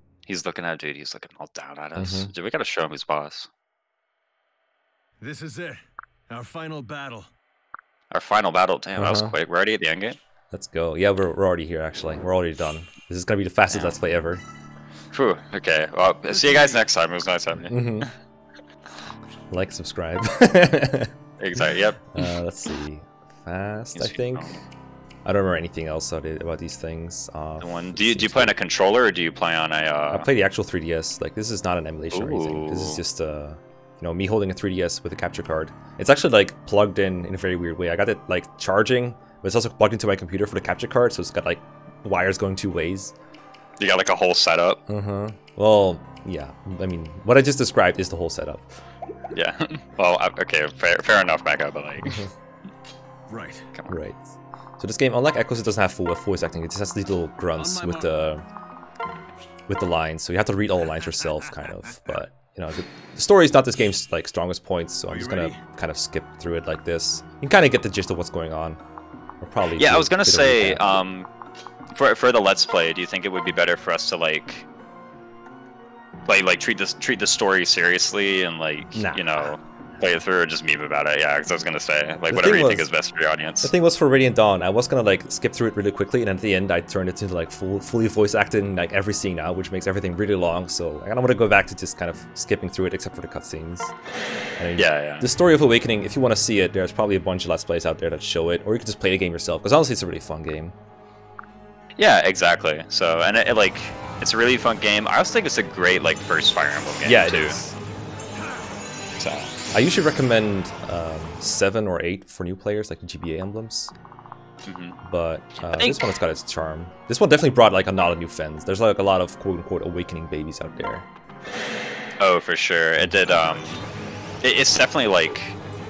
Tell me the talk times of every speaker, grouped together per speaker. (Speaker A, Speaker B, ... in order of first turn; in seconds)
Speaker A: 0.3-3.5, 8.1-10.2, 13.7-14.0, 15.1-18.1, 21.4-22.4, 23.9-24.6, 27.6-30.3, 32.1-33.0, 43.8-44.8, 49.3-52.2, 69.8-71.3, 71.9-74.7, 76.3-83.7, 94.8-95.3, 102.0-107.6, 109.2-109.5, 114.7-115.0, 115.6-116.2, 122.2-123.9, 124.4-125.6
Speaker B: 2.0-2.3, 9.0-9.3, 10.5-14.4, 17.7-18.1, 19.5-21.1, 22.1-24.6, 25.2-28.6, 30.1-43.1, 44.9-48.8, 52.0-52.3, 53.9-58.4, 59.7-68.8, 69.4-70.8, 79.0-79.5, 82.3-82.9, 83.6-93.9, 94.6-100.8, 107.0-107.8, 109.7-113.9, 115.0-121.1
Speaker C: 5.2-7.3, 53.3-53.7, 57.6-58.1, 65.1-65.6